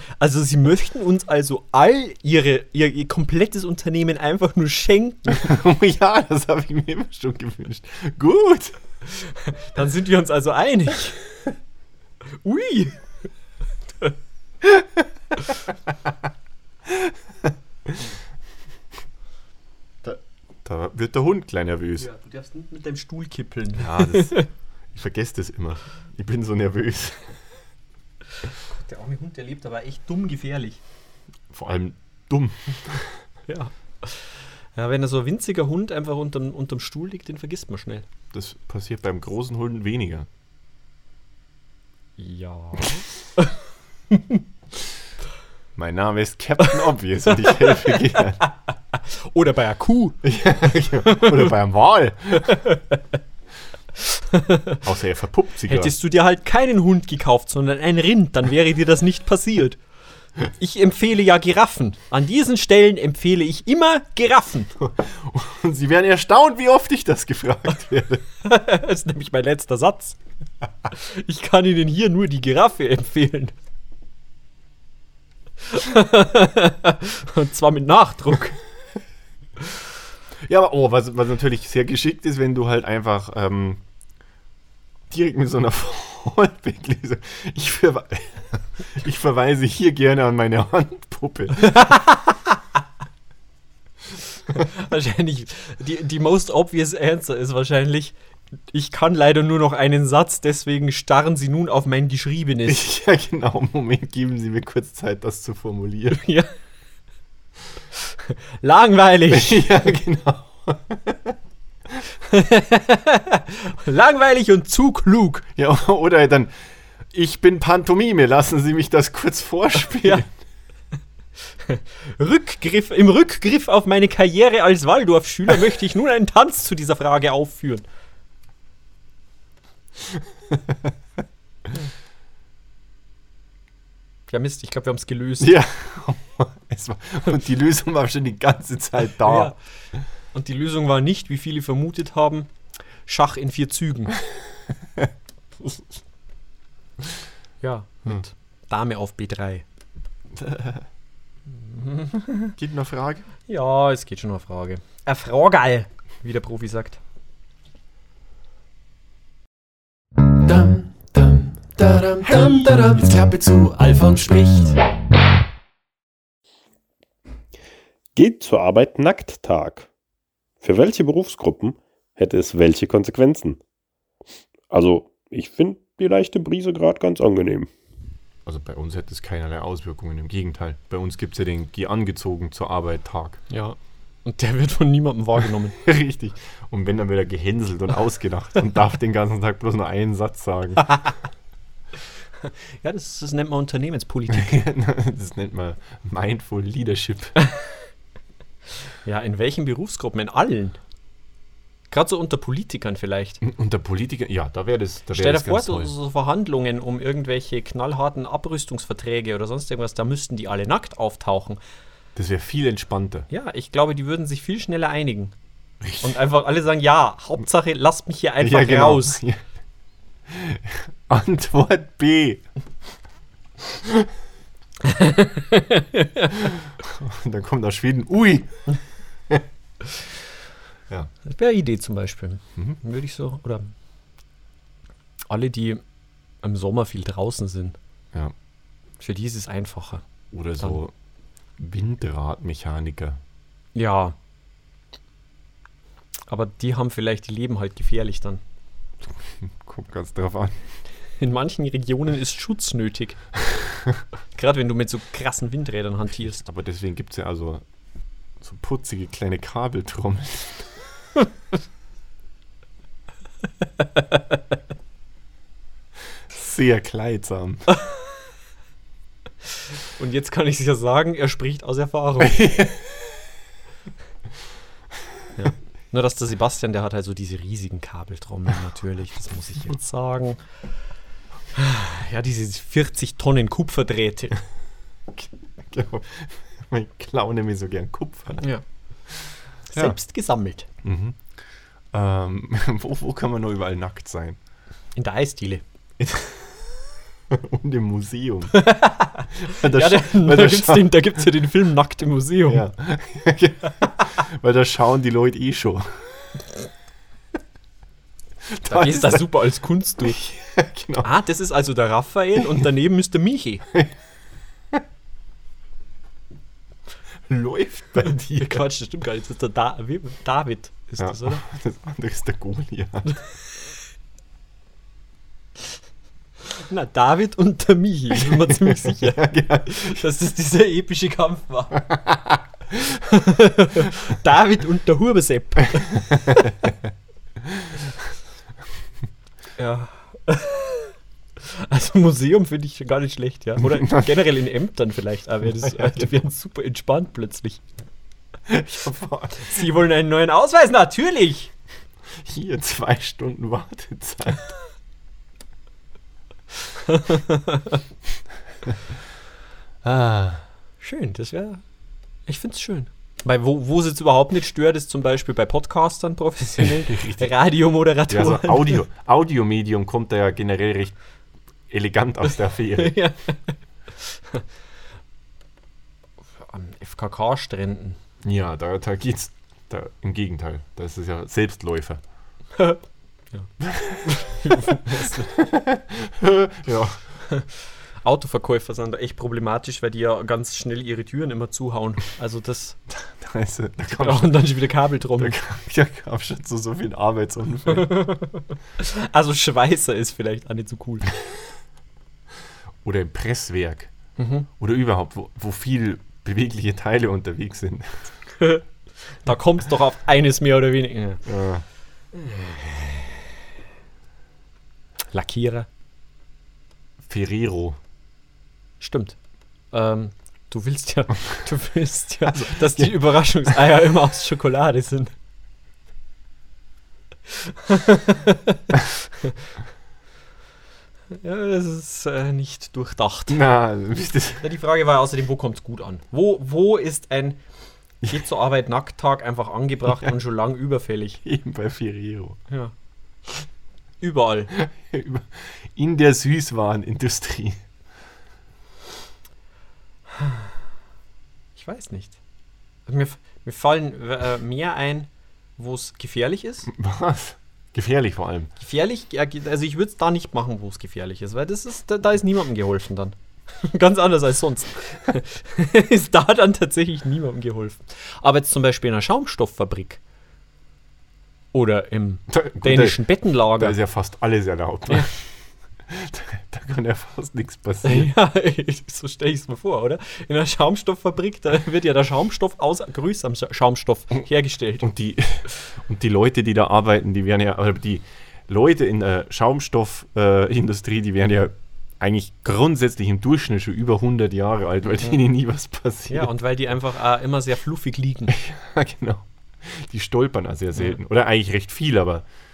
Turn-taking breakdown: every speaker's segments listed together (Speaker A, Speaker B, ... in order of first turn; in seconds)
Speaker A: 0.2-5.5, 9.1-11.2, 12.4-13.0, 22.0-24.5, 28.7-30.8, 33.5-38.0, 42.2-43.5, 44.1-44.4, 47.4-50.2, 51.1-51.4, 54.1-54.8, 55.7-59.8, 60.5-64.7, 68.4-70.2, 70.9-73.5, 75.7-78.6, 91.7-92.4, 94.5-98.1, 98.7-102.9, 106.1-106.5, 108.3-109.8, 112.2-115.5, 119.9-120.2, 121.7-127.8, 134.3-135.5, 139.2-139.6, 140.3-142.5, 143.1-144.2, 147.6-149.6, 151.6-152.5, 153.5-157.0, 183.5-185.8, 192.4-194.6, 199.0-200.8, 201.9-203.4, 205.1-211.6, 213.3-215.3, 216.0-219.2, 224.8-226.4, 231.2-233.7, 235.3-235.8, 236.4-237.8, 239.0-240.0, 243.7-244.2, 246.3-248.4, 251.2-253.2, 254.3-256.4, 270.0-272.5, 275.4-280.4, 281.5-284.4, 289.7-290.7, 294.9-295.6, 298.5-302.6, 308.6-310.2, 311.0-313.6, 318.1-321.4, 326.5-331.8, 333.0-336.6, 339.6-347.6, 349.4-351.5, 356.9-357.8, 360.8-361.6, 362.3-368.8, 372.8-374.4, 376.4-378.0, 382.6-382.8, 384.0-385.4, 388.0-392.8, 394.0-395.4, 397.7-401.1, 404.2-404.5, 408.4-411.2, 412.1-413.2, 415.1-415.7, 418.8-419.1, 419.7-425.1, 427.4-429.3, 431.1-433.4, 434.4-437.4, 438.1-441.2, 444.0-444.5, 450.1-450.4, 451.6-452.2, 452.9-456.7, 458.6-470.0, 471.5-473.8, 477.8-484.9, 496.1-498.4
Speaker B: 5.3-8.8, 20.0-22.1, 23.8-24.3, 24.9-27.3, 31.5-33.2, 38.3-40.3, 45.8-48.4, 50.2-52.6, 54.8-55.9, 64.8-68.2, 80.4-83.8, 85.1-92.0, 102.7-106.2, 109.3-111.3, 115.5-116.5, 117.1-120.3, 130.5-130.9, 135.4-139.5, 150.3-150.8, 152.6-153.3, 178.4-183.4, 185.8-191.0, 194.3-197.3, 203.4-205.9, 212.2-213.3, 215.8-216.2, 218.4-219.4, 220.3-222.4, 226.8-228.5, 240.3-240.9, 241.6-243.2, 249.4-250.6, 256.3-257.6, 258.4-260.8, 266.3-267.7, 272.2-273.1, 285.6-288.4, 290.8-291.2, 291.9-294.4, 296.0-296.8, 297.3-298.6, 299.4-301.1, 302.5-306.3, 308.5-309.3, 310.0-311.1, 317.3-318.6, 321.0-323.2, 328.2-330.0, 331.9-333.0, 343.7-344.1, 345.6-346.1, 348.5-349.7, 352.2-354.5, 359.8-360.4, 366.6-367.3, 368.1-370.9, 371.7-372.9, 378.2-382.0, 383.6-387.0, 393.1-394.6, 395.1-397.9, 402.8-403.9, 404.6-408.1, 411.2-411.6, 417.1-417.8, 422.3-423.0, 433.3-434.4, 441.2-442.4, 444.6-447.6, 456.7-458.5, 472.3-475.3, 475.9-478.1, 484.8-496.3, 498.3-502.2
Speaker C: 160.4-164.8
Speaker D: 168.2-169.9, 170.6-173.6, 174.7-177.7